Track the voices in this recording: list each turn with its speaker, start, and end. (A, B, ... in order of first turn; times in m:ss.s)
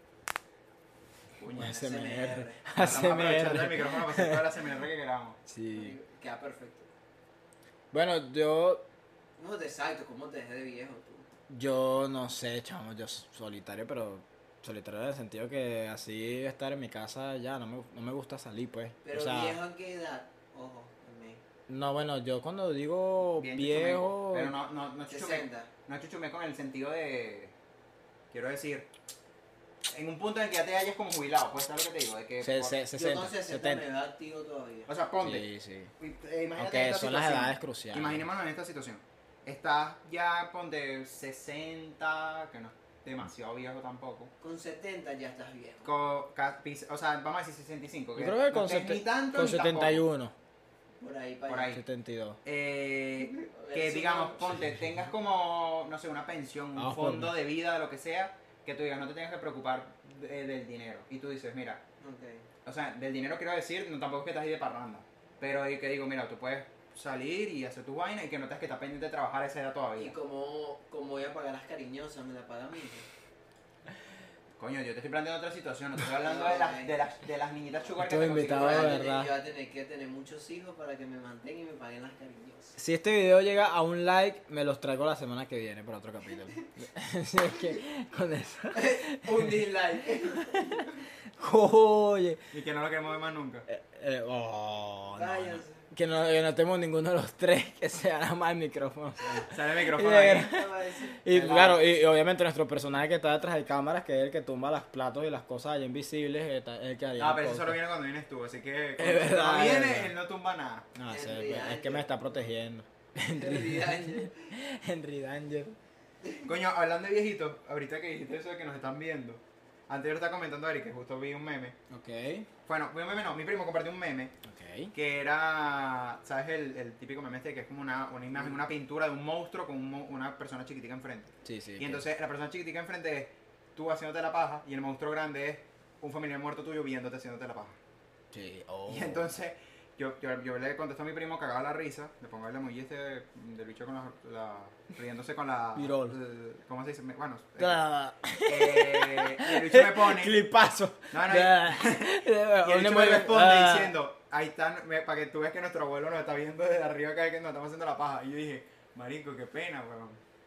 0:01.4-0:01.8 A
0:01.6-0:04.6 B
0:01.6-0:02.6 C
0:02.8-0:05.4 A
0:05.5-0:06.0 B
0:05.8-0:06.9 C
0:07.9-0:08.8 B
0:09.4-0:11.3 C
0:11.5-0:19.6 B
0:19.0-0:21.4 C
0:21.7-0:24.6 B
0:23.4-0:27.5 A
0:25.1-0:25.7 C
0:28.3-0:28.9 A
0:29.9-0:32.8 A
0:32.4-0:33.8 B
0:32.9-0:34.9 C
0:34.9-0:35.5 A
0:35.2-0:35.9 B
0:36.0-0:44.3 A
0:36.6-0:38.3 B
0:44.4-0:45.9 C
0:45.8-0:50.0 A
0:48.2-0:50.4 B
0:51.0-0:51.8 C
0:51.5-0:51.8 A
0:51.7-0:52.4 B
0:52.4-1:01.8 A
0:53.2-0:54.6 C
0:56.8-0:57.4 B
1:02.0-1:02.5 C
1:02.6-1:10.2 A
1:10.0-1:13.1 C
1:14.6-1:19.0 A
1:16.2-1:17.0 C
1:18.0-1:19.3 B
1:18.2-1:22.8 C
1:22.8-1:32.5 B
1:28.7-1:30.9 C
1:32.5-1:33.7 A
1:33.7-1:47.8 B
1:35.1-1:35.9 C
1:39.5-1:40.5 A
1:40.3-1:41.7 C
1:41.4-1:41.8 A
1:47.2-1:50.9 A
1:49.0-1:50.1 B
1:51.0-1:55.8 B
1:51.1-1:52.4 C
1:53.4-1:54.5 C
1:56.4-2:01.8 A
2:01.9-2:02.5 B
2:02.7-2:04.4 A
2:04.4-2:04.9 B
2:04.9-2:17.8 A
2:11.4-2:12.0 B
2:18.3-2:19.3 B
2:18.9-2:27.8 A
2:25.8-2:26.2 B
2:27.6-2:34.0 B
2:28.5-2:30.4 A
2:31.1-2:40.2 A